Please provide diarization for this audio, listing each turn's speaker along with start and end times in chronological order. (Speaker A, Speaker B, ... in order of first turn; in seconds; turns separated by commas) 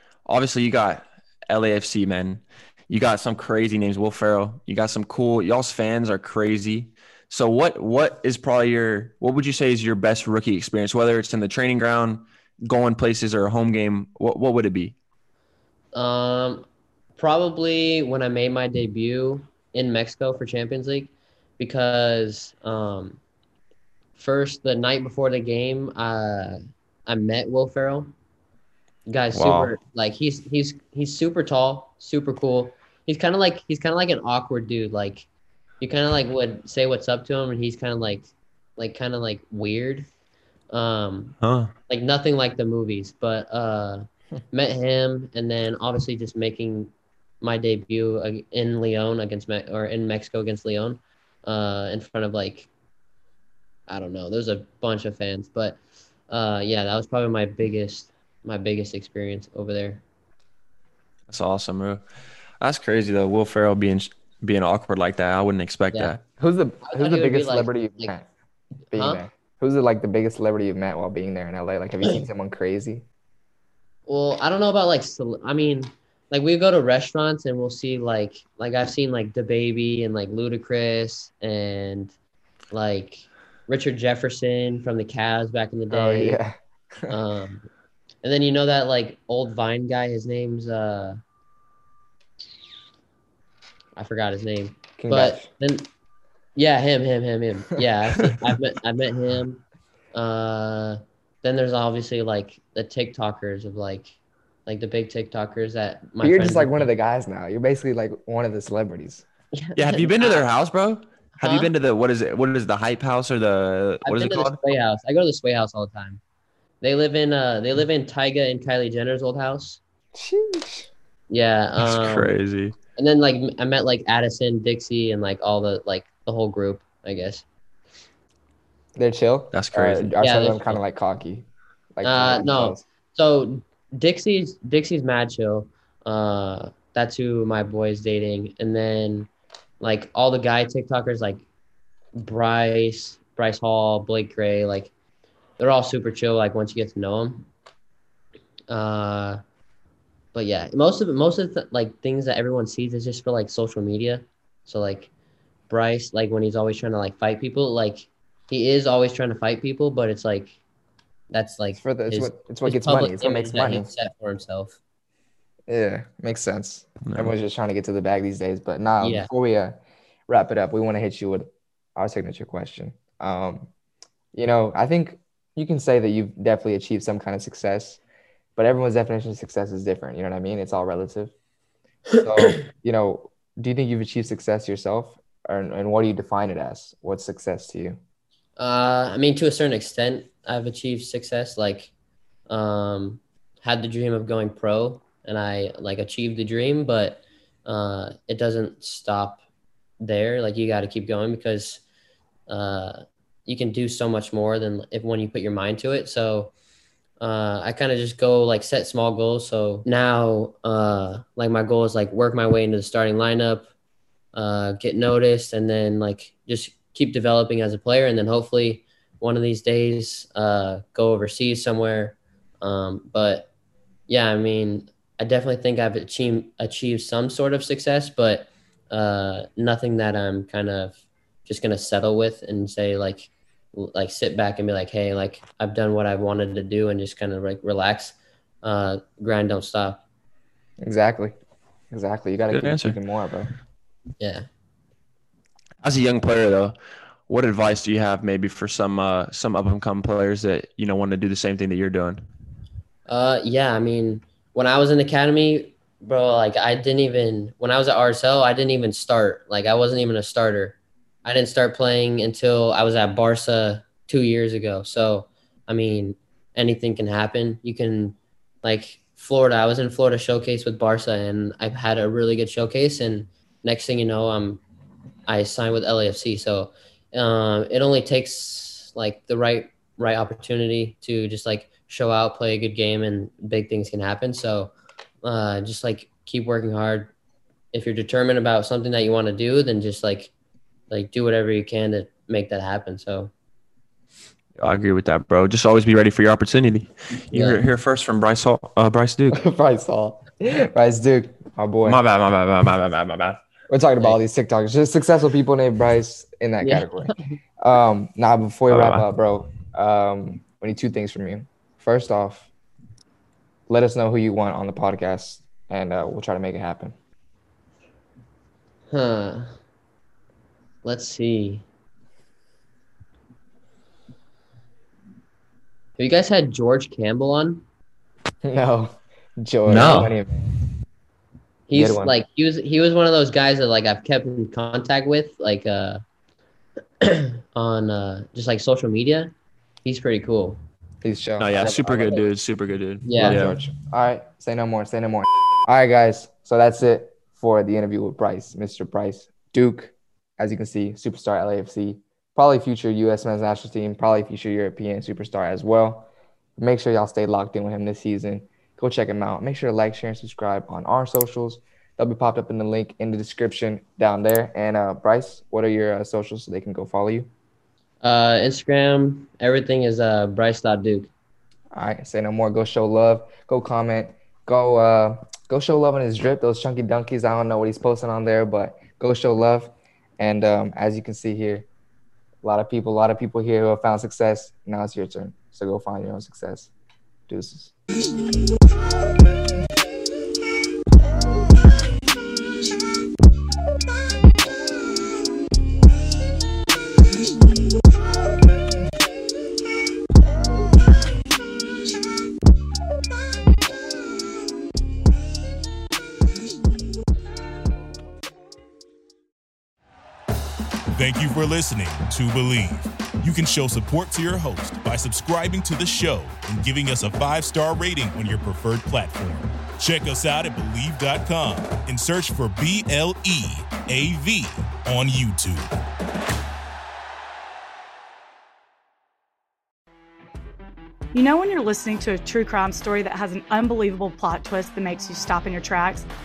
Speaker A: 0.3-14.9, Speaker B: 15.9-16.6, Speaker B: 17.2-23.2, Speaker B: 24.2-28.1, Speaker B: 29.1-35.3, Speaker A: 29.3-29.7, Speaker B: 35.8-40.1, Speaker B: 40.7-41.4, Speaker A: 41.4-41.7, Speaker B: 41.9-52.7, Speaker B: 53.9-60.0, Speaker A: 61.3-62.0, Speaker A: 62.6-66.2, Speaker C: 66.4-68.3, Speaker B: 66.8-68.2, Speaker C: 68.9-73.0, Speaker B: 69.0-69.2, Speaker B: 74.1-82.2, Speaker B: 82.7-86.4, Speaker C: 85.9-87.1, Speaker B: 87.1-87.7, Speaker B: 88.2-91.2, Speaker B: 94.0-95.9, Speaker C: 95.0-95.5, Speaker B: 96.6-106.9, Speaker C: 106.2-109.3, Speaker B: 109.5-110.5, Speaker A: 109.8-114.6, Speaker B: 111.4-111.7, Speaker B: 114.0-116.2, Speaker B: 116.8-119.8, Speaker C: 120.1-120.9, Speaker B: 121.3-122.3, Speaker A: 121.8-122.8, Speaker B: 123.0-127.5, Speaker C: 129.0-132.8, Speaker A: 129.5-130.1, Speaker B: 130.2-130.8, Speaker B: 132.0-139.3, Speaker B: 139.8-141.4, Speaker B: 142.2-144.9, Speaker B: 145.6-147.5, Speaker B: 148.7-149.4, Speaker B: 150.3-155.1, Speaker B: 155.7-160.6, Speaker B: 161.3-164.8, Speaker C: 161.8-163.9, Speaker C: 165.7-173.7, Speaker A: 167.1-167.3, Speaker B: 169.0-169.3, Speaker C: 174.3-178.0, Speaker C: 178.6-181.3, Speaker B: 182.2-182.6, Speaker C: 182.2-188.0, Speaker B: 188.6-191.9, Speaker B: 192.5-199.4, Speaker B: 200.0-201.8, Speaker B: 202.5-206.5, Speaker B: 207.2-213.7, Speaker B: 214.3-223.5, Speaker B: 224.1-240.0, Speaker C: 240.8-241.3, Speaker C: 241.9-243.5, Speaker A: 242.5-243.0, Speaker B: 244.2-244.5, Speaker A: 245.8-246.8, Speaker A: 247.3-252.2, Speaker B: 253.1-274.6, Speaker B: 275.3-287.1, Speaker B: 287.7-290.3, Speaker B: 290.9-293.3, Speaker A: 294.6-299.4, Speaker B: 297.3-297.6, Speaker C: 299.3-302.0, Speaker A: 301.9-303.4, Speaker C: 303.7-312.5, Speaker B: 306.6-307.3, Speaker A: 308.7-309.1, Speaker C: 313.7-316.9, Speaker B: 318.9-319.6, Speaker B: 320.8-321.6, Speaker B: 326.0-327.6, Speaker C: 328.4-330.5, Speaker A: 329.7-330.1, Speaker B: 331.7-336.0, Speaker C: 331.7-332.2, Speaker B: 337.0-339.3, Speaker B: 339.8-340.6, Speaker C: 341.0-342.1, Speaker A: 341.4-343.6, Speaker B: 341.6-342.3, Speaker B: 343.1-343.4, Speaker C: 343.2-367.3, Speaker B: 368.0-371.1, Speaker C: 371.7-381.7, Speaker C: 382.4-386.7, Speaker C: 387.3-387.7, Speaker D: 410.9-425.7, Speaker E: 431.1-436.1